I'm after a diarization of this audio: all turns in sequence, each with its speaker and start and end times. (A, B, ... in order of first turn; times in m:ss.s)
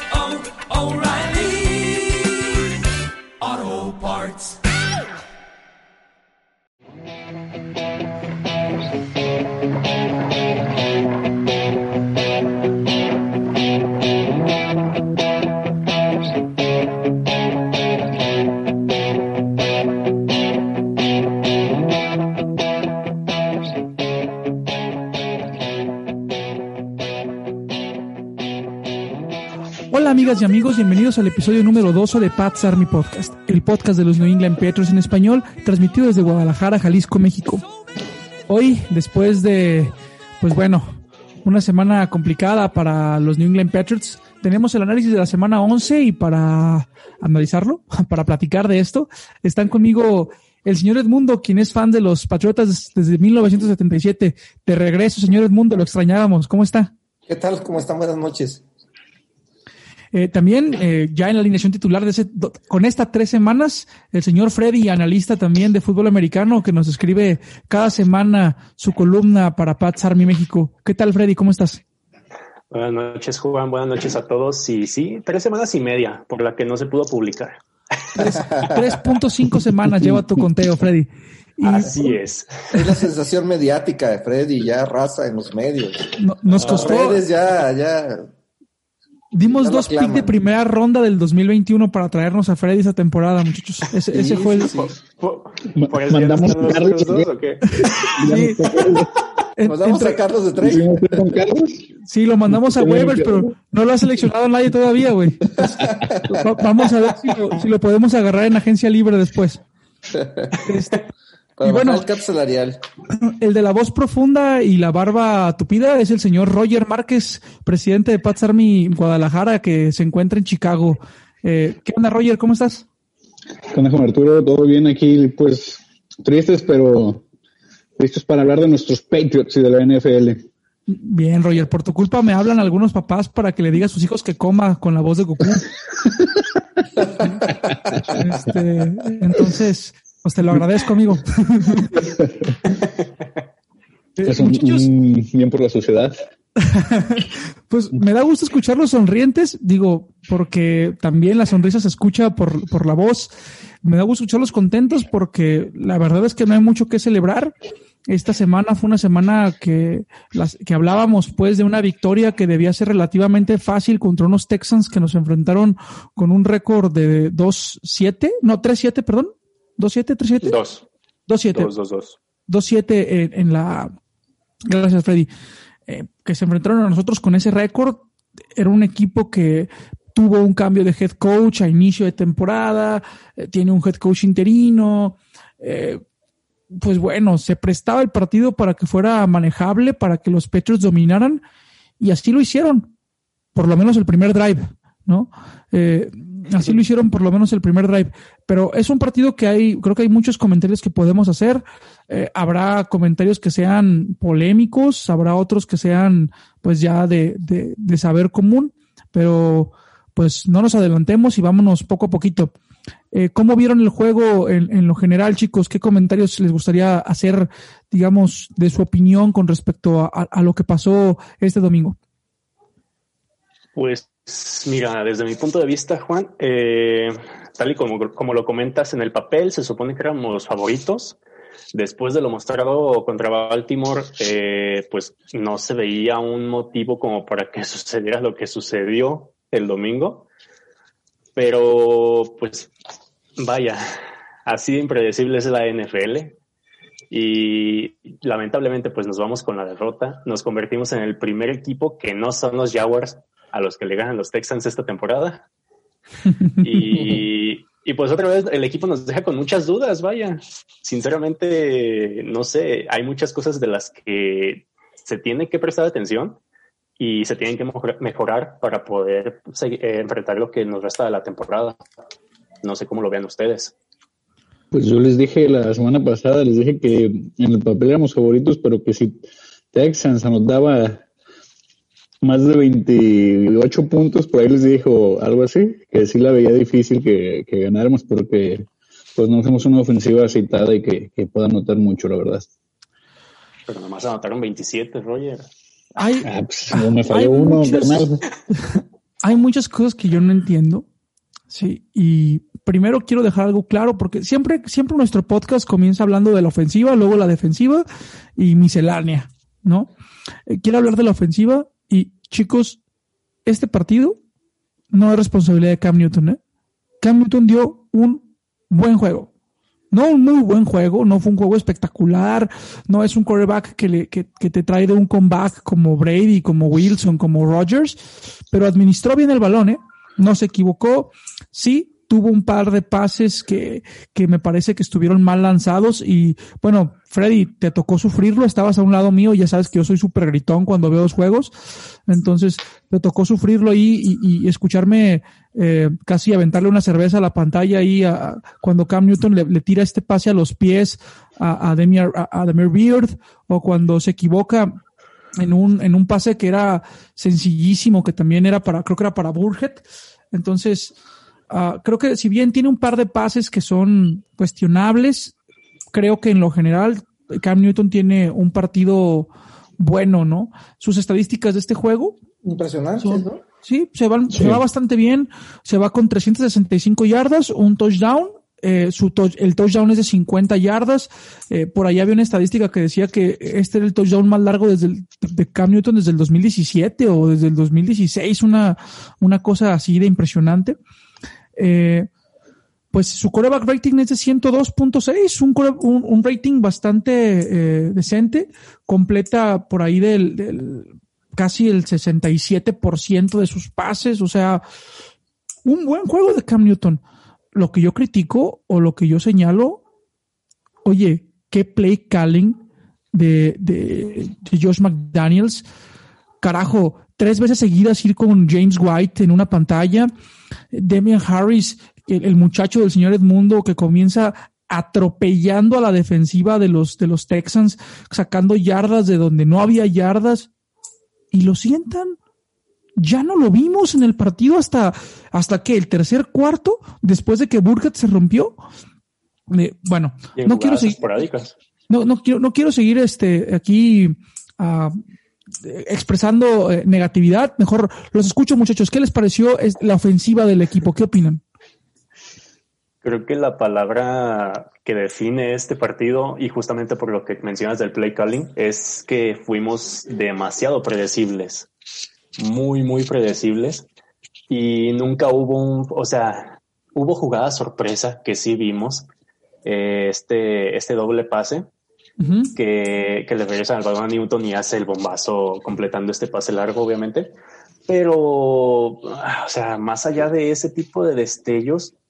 0:00.2-0:01.8 A
0:03.8-0:04.4 A
0:29.9-0:37.6 B
0:38.5-0:56.9 B
0:57.3-0:58.6 C
1:00.1-1:11.8 B
1:12.7-1:17.6 A
1:18.1-1:22.2 B
1:18.3-1:18.8 C
1:21.6-1:22.5 A
1:22.7-1:28.3 C
1:26.2-1:27.2 B
1:26.5-1:27.0 A
1:29.3-1:34.7 B
1:29.5-1:30.4 C
1:34.1-1:35.0 C
1:34.6-1:38.2 A
1:35.8-1:37.3 D
1:37.7-1:38.9 B
1:38.0-1:39.1 D
1:39.6-1:40.2 B
1:39.6-1:41.4 C
1:40.6-1:41.9 D
1:42.0-1:49.6 B
1:42.5-1:43.5 D
1:45.6-1:46.5 C
1:50.1-1:50.6 C
1:50.6-1:51.0 B
1:51.6-1:52.8 C
1:51.6-1:52.0 B
1:53.1-2:02.9 B
2:03.7-2:07.3 D
2:08.0-2:10.5 D
2:10.9-2:15.7 B
2:17.0-2:18.1 C
2:17.1-2:17.4 B
2:18.1-2:22.0 B
2:22.0-2:22.6 D
2:24.2-2:24.9 B
2:24.2-2:26.2 D
2:26.6-2:33.3 B
2:33.8-2:37.5 B
2:38.1-2:50.6 B
2:50.4-2:50.9 A
2:51.3-2:51.7 B
2:51.5-2:52.2 A
2:52.5-2:53.9 B
2:54.7-2:55.3 B
2:55.9-3:06.0 B
3:06.8-3:11.4 B
3:12.0-3:12.9 B
3:13.6-3:32.6 B
3:33.1-3:42.0 B
3:43.8-3:51.2 A
3:51.7-4:00.3 A
4:01.4-4:02.7 A
4:03.4-4:03.9 A
4:04.4-4:06.4 A
4:07.1-4:15.4 A
4:16.6-4:26.4 A
4:27.0-4:31.8 A
4:32.6-4:33.8 A
4:34.7-4:39.2 D
4:39.7-4:41.0 D
4:42.2-4:52.5 D
4:53.7-4:55.5 A
4:56.0-5:00.9 B
4:56.2-4:58.2 D
5:01.5-5:07.8 B
5:08.4-5:09.9 B
5:10.5-5:12.8 B
5:13.5-5:14.2 B
5:14.9-5:16.4 B
5:17.0-5:19.3 B
5:19.9-5:28.0 B
5:28.5-5:41.5 B
5:42.1-5:54.8 B
5:55.4-6:01.0 B
6:01.5-6:05.4 B
6:05.9-6:12.2 B
6:12.4-6:13.4 C
6:13.0-6:30.8 B
6:14.3-6:14.6 D
6:31.6-6:32.1 B
6:32.9-6:44.6 B
6:45.6-6:47.0 B
6:47.5-6:49.8 B
6:50.8-6:55.6 B
6:56.4-7:00.1 B
7:00.7-7:10.5 B
7:11.3-7:12.2 B
7:13.0-7:18.6 B
7:19.5-7:21.0 B
7:20.4-7:21.6 A
7:21.9-7:25.0 B
7:25.6-7:31.4 B
7:33.0-7:41.7 A
7:42.4-7:43.9 A
7:44.5-7:49.1 A
7:49.6-7:51.7 A
7:52.2-7:52.5 B
7:52.6-7:57.3 A
7:57.9-8:01.9 A